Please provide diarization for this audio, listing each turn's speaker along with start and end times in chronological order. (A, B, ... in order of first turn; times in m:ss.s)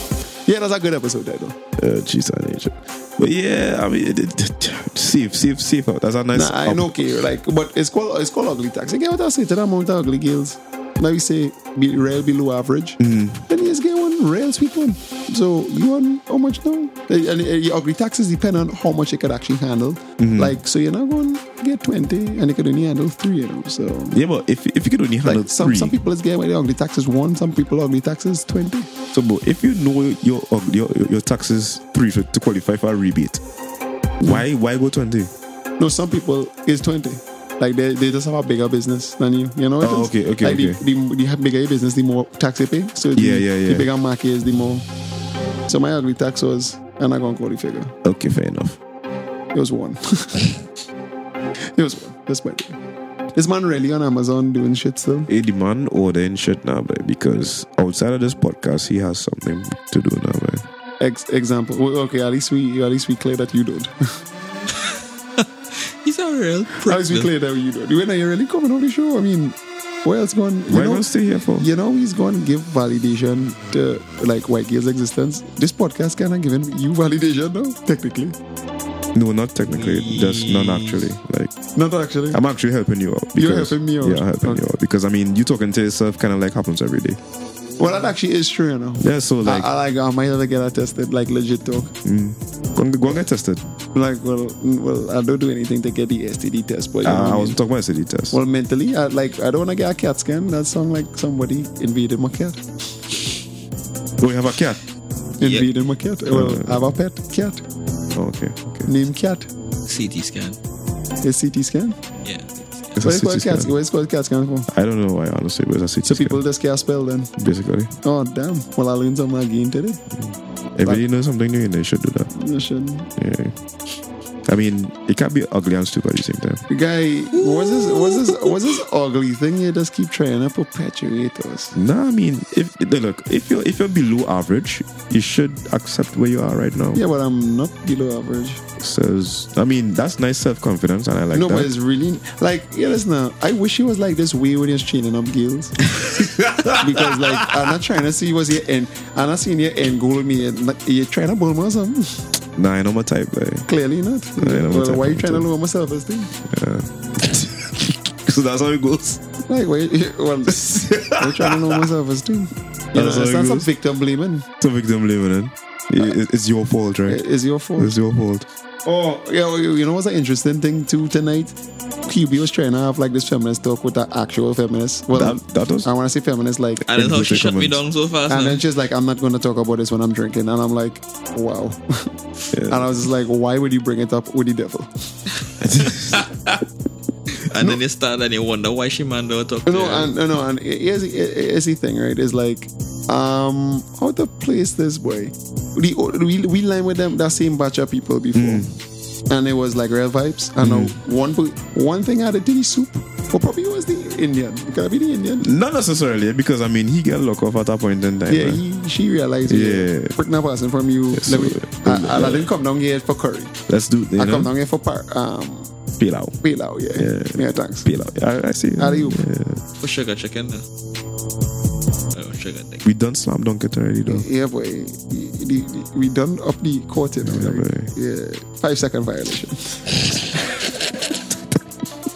0:00.5-0:01.6 A
0:01.8-0:07.0 B
0:06.3-0:24.2 A
0:13.0-0:13.4 B
0:20.2-0:20.6 B
0:24.1-0:26.0 B
0:25.2-0:28.9 A
0:29.1-0:33.4 B
0:34.2-0:34.4 A
0:34.2-0:35.3 B
0:35.8-0:44.9 A
0:39.8-0:40.8 B
0:43.2-0:43.9 B
0:45.7-0:47.9 A
0:48.0-0:48.8 B
0:49.5-0:50.5 A
0:51.7-0:52.8 A
0:53.4-0:55.3 A
0:55.3-1:00.7 B
1:01.0-1:03.9 A
1:04.9-1:07.3 C
1:06.9-1:18.4 A
1:10.7-1:11.7 B
1:19.1-1:21.5 B
1:19.7-1:21.0 C
1:21.8-1:22.4 A
1:22.3-1:27.2 B
1:23.4-1:24.6 A
1:27.8-1:31.9 A
1:29.0-1:29.7 B
1:32.0-1:33.6 B
1:33.9-1:37.6 A
1:37.0-1:38.4 B
1:38.3-1:42.6 A
1:44.2-1:44.8 B
1:45.4-1:47.6 A
1:45.4-1:45.7 C
1:46.3-1:47.0 B
1:48.2-1:48.9 B
1:48.9-1:49.5 A
1:49.9-1:50.6 C
1:51.2-1:52.0 A
1:52.2-1:53.0 C
1:53.0-1:53.7 B
1:53.0-1:54.7 A
1:54.7-1:56.4 B
1:56.0-1:57.3 A
1:57.4-1:57.9 B
1:58.0-2:00.0 A
2:00.2-2:02.3 B
2:02.3-2:03.1 A
2:03.2-2:03.6 B
2:04.5-2:06.6 B
2:06.7-2:11.8 A
2:07.4-2:08.6 C
2:11.7-2:17.0 B
2:17.0-2:18.6 A
2:18.8-2:21.7 B
2:21.3-2:25.8 A
2:26.0-2:27.5 B
2:26.7-2:32.2 A
2:32.6-2:33.7 B
2:33.7-2:36.3 A
2:34.4-2:35.5 B
2:36.4-2:39.2 B
2:39.5-2:44.5 A
2:40.5-2:41.8 B
2:42.9-2:43.7 B
2:44.6-2:47.2 B
2:47.1-2:47.9 A
2:47.8-2:48.5 B
2:48.8-2:51.6 A
2:52.1-2:56.8 A
2:55.1-2:55.9 B
2:56.9-2:58.6 C
2:56.9-2:57.8 B
2:58.3-3:02.1 A
3:02.5-3:02.9 B
3:02.7-3:04.9 A
3:05.6-3:06.3 B
3:06.1-3:06.6 C
3:07.3-3:10.1 C
3:09.7-3:18.7 A
3:18.3-3:18.7 B
3:19.3-3:25.5 A
3:20.6-3:21.0 B
3:25.4-3:28.6 B
3:28.3-3:33.5 A
3:29.5-3:30.2 B
3:31.1-3:32.5 B
3:33.7-3:34.5 B
3:34.2-3:35.7 A
3:36.0-3:36.4 B
3:36.4-3:37.9 A
3:37.0-3:39.6 B
3:38.8-3:39.2 A
3:39.8-3:40.6 C
3:42.1-3:42.8 C
3:42.8-3:44.3 B
3:44.1-3:50.0 A
3:47.2-3:47.9 B